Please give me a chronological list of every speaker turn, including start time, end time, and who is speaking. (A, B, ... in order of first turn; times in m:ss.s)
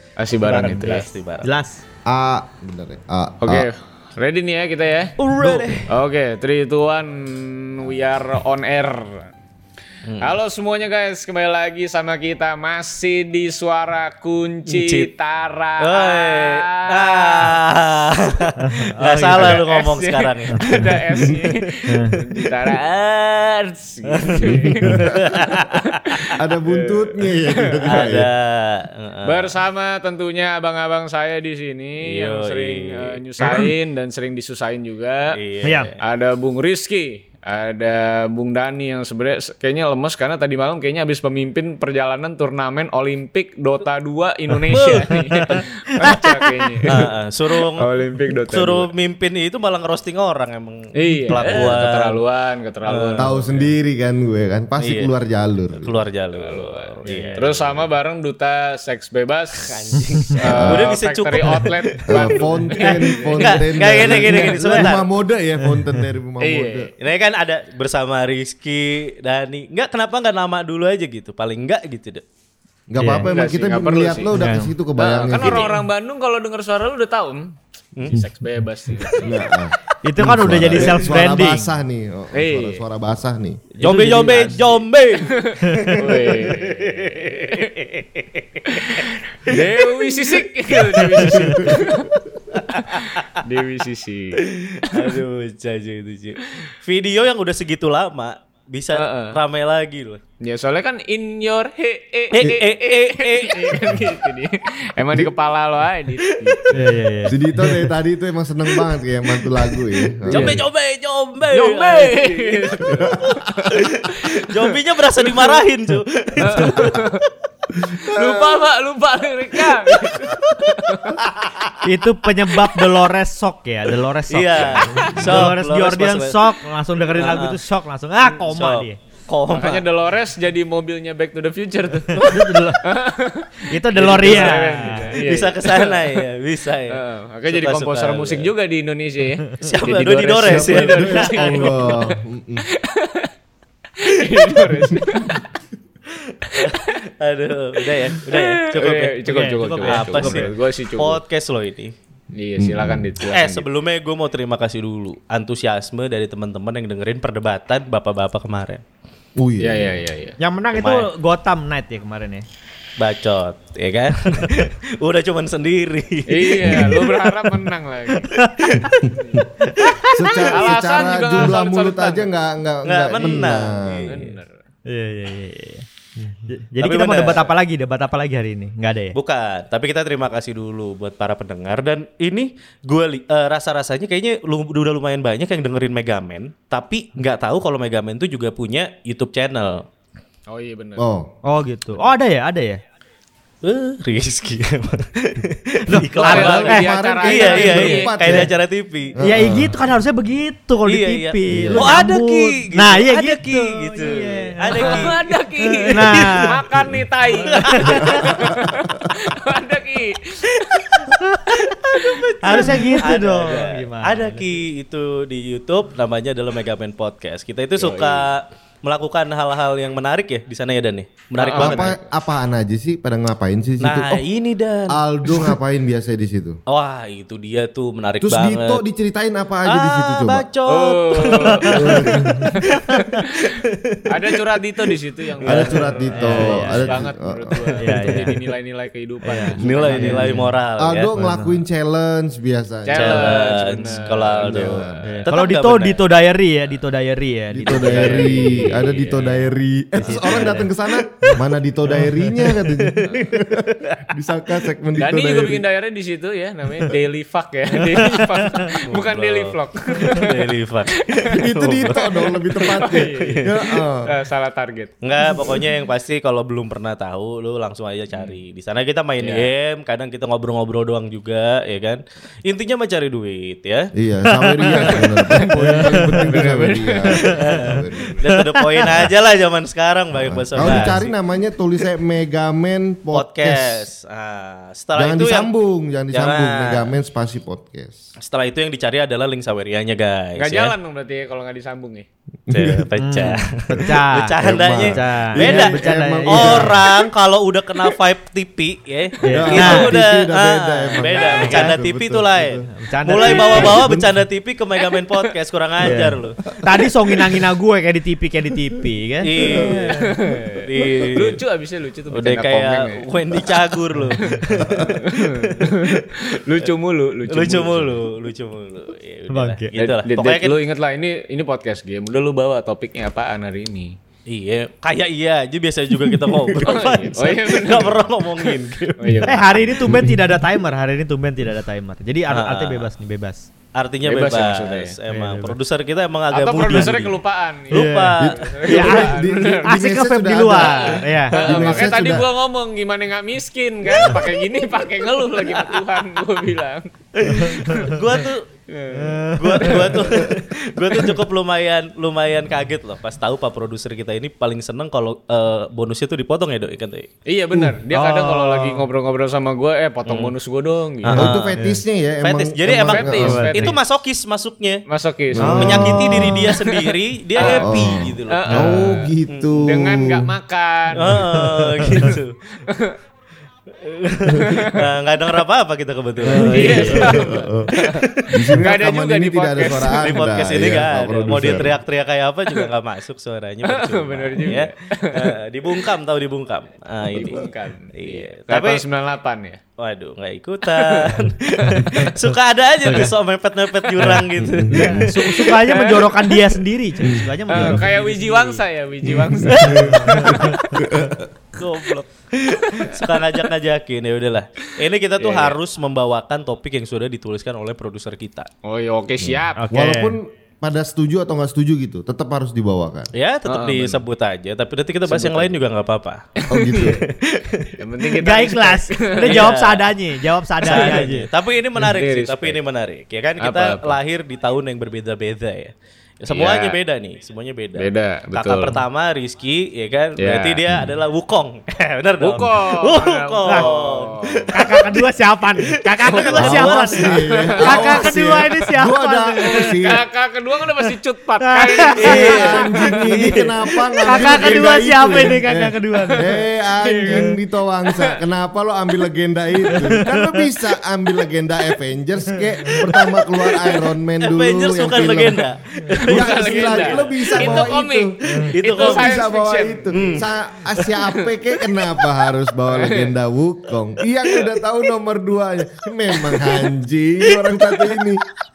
0:00.2-0:01.1 A
0:00.4-0:01.5 B
0:01.4-0:01.8 C
0:02.1-0:03.7 D
0:03.4-0:05.1 A
0:05.2-0:05.9 B
0:05.4-0:05.7 C
0:05.9-0:09.3 A
0:10.0-0:10.4 B
0:10.2-0:17.6 A
0:14.7-0:15.1 B
0:15.8-0:21.7 B
0:18.6-0:19.6 C
0:19.3-0:22.8 A
0:21.9-0:22.2 C
0:22.6-0:26.3 B
0:23.7-0:28.1 A
0:24.7-0:25.1 D
0:26.4-0:28.3 D
0:27.8-0:29.5 B
0:29.2-0:35.4 A
0:32.0-0:33.7 B
0:35.3-0:36.0 B
0:35.6-0:35.9 C
0:36.0-0:47.1 A
0:44.7-0:46.2 B
0:46.8-0:47.9 B
0:47.7-0:48.9 A
0:48.5-0:52.2 B
0:50.9-0:53.7 A
0:52.8-0:53.4 B
0:53.2-0:56.0 D
0:54.8-0:55.1 B
0:55.8-0:57.9 B
0:56.4-1:04.9 A
0:59.6-1:05.0 B
1:00.5-1:00.9 D
1:02.1-1:06.9 D
1:05.6-1:06.0 C
1:06.4-1:06.9 A
1:07.0-1:12.2 B
1:12.9-1:15.7 D
1:13.0-1:13.3 C
1:13.2-1:14.3 A
1:14.4-1:14.7 C
1:15.0-1:19.6 A
1:15.4-1:15.8 B
1:18.0-1:18.2 B
1:19.2-1:23.7 D
1:20.0-1:21.7 C
1:22.3-1:22.8 A
1:23.8-1:24.6 C
1:23.8-1:29.6 B
1:23.8-1:27.7 A
1:25.7-1:26.0 C
1:28.7-1:32.1 A
1:31.3-1:31.6 C
1:31.3-1:32.0 D
1:32.6-1:33.4 B
1:32.8-1:35.1 A
1:34.4-1:40.2 B
1:38.9-1:39.4 A
1:40.4-1:46.9 A
1:42.3-1:43.9 B
1:46.2-1:46.7 B
1:46.7-1:47.8 C
1:47.3-1:50.6 D
1:50.2-1:57.1 B
1:51.5-1:55.6 A
1:52.8-1:53.4 D
1:56.4-1:57.2 A
1:57.9-2:01.3 A
1:58.0-1:58.6 D
1:59.6-2:00.4 B
2:01.2-2:01.7 B
2:01.8-2:09.0 C
2:04.3-2:06.5 B
2:04.9-2:05.2 A
2:07.1-2:07.6 B
2:08.2-2:09.8 B
2:09.5-2:16.2 A
2:12.1-2:12.7 B
2:12.2-2:12.8 C
2:13.6-2:15.2 C
2:14.0-2:18.5 B
2:16.9-2:22.1 A
2:19.6-2:21.9 B
2:20.4-2:22.7 D
2:22.7-2:23.3 A
2:24.0-2:25.4 A
2:26.1-2:31.9 B
2:26.6-2:26.9 A
2:28.0-2:31.2 A
2:29.3-2:30.5 C
2:32.3-2:33.6 A
2:32.6-2:33.1 D
2:33.2-2:38.8 B
2:39.4-2:40.0 D
2:39.6-2:40.4 A
2:40.4-2:42.4 C
2:40.7-2:41.1 B
2:43.0-2:47.6 B
2:46.3-2:48.4 A
2:48.3-2:48.9 B
2:48.4-2:48.9 C
2:48.8-2:49.1 D
2:49.1-2:49.4 A
2:49.8-2:50.4 C
2:50.1-2:54.2 D
2:50.5-2:52.3 A
2:52.8-2:54.3 B
2:53.2-2:54.5 A
2:54.9-2:55.8 C
2:56.4-2:59.2 C
2:56.8-2:57.5 B
2:59.1-3:09.8 B
3:10.5-3:11.0 A
3:11.0-3:11.3 D
3:11.4-3:12.8 C
3:13.6-3:19.1 B
3:15.9-3:16.8 C
3:16.1-3:18.5 A
3:16.2-3:18.5 D
3:19.2-3:19.8 D
3:19.2-3:25.1 C
3:20.8-3:26.5 B
3:21.5-3:22.0 D
3:24.7-3:31.1 A
3:25.8-3:26.6 C
3:27.4-3:28.5 B
3:27.4-3:28.4 C
3:31.1-3:31.7 C
3:31.5-3:42.0 B
3:31.9-3:32.6 A
3:32.4-3:34.4 C
3:37.8-3:38.3 A
3:41.4-3:41.9 A
3:41.5-3:44.2 D
3:43.8-3:45.5 B
3:44.9-3:46.6 D
3:46.7-3:48.8 B
3:48.2-3:50.4 D
3:49.6-3:54.9 B
3:50.7-3:52.6 A
3:51.6-3:52.4 D
3:51.7-3:53.0 C
3:54.1-4:00.3 A
3:55.4-3:58.3 D
3:55.6-3:57.0 C
3:57.8-3:58.4 C
3:59.2-4:00.5 C
3:59.6-4:01.1 B
4:00.8-4:05.1 D
4:01.2-4:01.6 C
4:02.8-4:05.1 A
4:02.9-4:06.0 B
4:05.0-4:08.6 C
4:07.5-4:15.6 D
4:07.7-4:09.4 A
4:10.0-4:12.5 C
4:12.8-4:14.1 B
4:15.0-4:20.5 A
4:17.9-4:18.4 C
4:18.8-4:23.5 B
4:21.1-4:21.3 A
4:21.3-4:24.1 D
4:22.6-4:25.6 A
4:25.0-4:33.9 B
4:29.2-4:29.5 A
4:34.0-4:38.2 D
4:34.3-4:36.4 C
4:34.8-4:37.4 A
4:37.2-4:41.1 B
4:37.2-4:37.5 C
4:38.2-4:39.0 C
4:40.1-4:43.9 D
4:43.1-4:45.5 B
4:45.0-4:48.0 D
4:46.1-4:46.9 B
4:48.2-4:50.8 B
4:50.4-4:52.0 A
4:52.5-4:52.9 D
4:52.5-5:06.4 B
4:53.0-4:56.8 C
4:53.8-4:56.8 D
4:59.2-4:59.9 C
4:59.3-5:02.7 D
5:01.0-5:01.6 A
5:02.7-5:03.8 C
5:03.2-5:04.1 D
5:05.8-5:10.0 C
5:06.5-5:06.9 D
5:09.2-5:11.4 B
5:09.5-5:13.4 A
5:09.5-5:09.9 D
5:12.1-5:16.7 B
5:14.2-5:18.0 A
5:14.6-5:15.0 D
5:17.3-5:20.6 B
5:19.3-5:19.7 C
5:19.8-5:24.0 A
5:24.3-5:29.9 B
5:26.0-5:26.8 D
5:26.6-5:29.8 A
5:29.2-5:33.4 C
5:29.9-5:30.2 D
5:32.3-5:32.9 B
5:33.7-5:39.0 B
5:34.0-5:35.0 A
5:35.1-5:35.5 C
5:36.3-5:39.7 A
5:37.7-5:38.2 C
5:38.2-5:42.3 D
5:38.7-5:39.1 C
5:39.6-5:41.6 C
5:40.5-5:48.0 A
5:44.0-5:44.3 B
5:45.2-5:46.2 B
5:47.2-5:48.4 B
5:47.3-5:47.7 C
5:48.7-5:49.9 A
5:48.9-5:50.0 C
5:49.4-5:57.1 B
5:57.2-6:01.3 A
5:57.9-5:58.8 C
6:00.0-6:00.3 B
6:01.0-6:01.6 B
6:01.1-6:03.7 D
6:02.2-6:04.8 B
6:02.9-6:03.8 A
6:03.2-6:03.7 C
6:04.9-6:11.3 A
6:05.3-6:06.5 D
6:05.4-6:09.8 B
6:07.4-6:10.3 D
6:10.9-6:12.4 B
6:12.7-6:13.0 A
6:13.8-6:18.6 B
6:14.3-6:14.8 A
6:16.2-6:17.7 D
6:16.3-6:17.2 C
6:16.4-6:20.3 A
6:18.3-6:21.8 D
6:19.6-6:28.8 B
6:21.3-6:21.6 A
6:23.6-6:25.8 A
6:27.1-6:29.6 A
6:29.8-6:35.5 B
6:30.6-6:32.1 A
6:31.7-6:32.1 C
6:34.0-6:38.4 C
6:34.6-6:35.1 D
6:35.5-6:36.6 A
6:37.0-6:37.8 D
6:37.5-6:40.8 A
6:39.0-6:41.3 D
6:39.6-6:40.8 C
6:39.7-6:40.3 B
6:41.6-6:48.5 B
6:42.7-6:43.4 A
6:45.2-6:45.5 A
6:48.6-6:49.6 A
6:49.3-6:53.1 D
6:49.6-6:50.2 C
6:53.1-6:56.2 B
6:53.4-6:54.0 A
6:55.1-6:55.5 A
6:56.5-6:57.0 D
6:56.5-6:57.0 A
6:56.7-6:57.7 B
6:57.8-6:59.5 A
6:58.2-7:01.3 C
6:59.2-6:59.9 B
7:00.6-7:15.0 B
7:00.6-7:01.1 A
7:01.7-7:02.6 A
7:03.4-7:04.0 A
7:06.3-7:06.8 A
7:07.8-7:08.8 A
7:10.2-7:10.6 A
7:12.2-7:14.8 A
7:14.5-7:19.7 C
7:15.6-7:17.2 B
7:16.4-7:20.0 D
7:17.0-7:18.1 A
7:19.6-7:22.9 A
7:21.4-7:22.9 C
7:21.9-7:23.5 B
7:22.0-7:35.5 D
7:24.0-7:26.3 C
7:26.1-7:28.2 A
7:29.7-7:30.4 C
7:34.2-7:37.7 B
7:35.9-7:39.9 A
7:36.0-7:48.2 D
7:38.4-7:39.3 B
7:39.9-7:40.3 B
7:40.9-7:41.3 A
7:42.7-7:43.1 A
7:47.4-7:48.0 B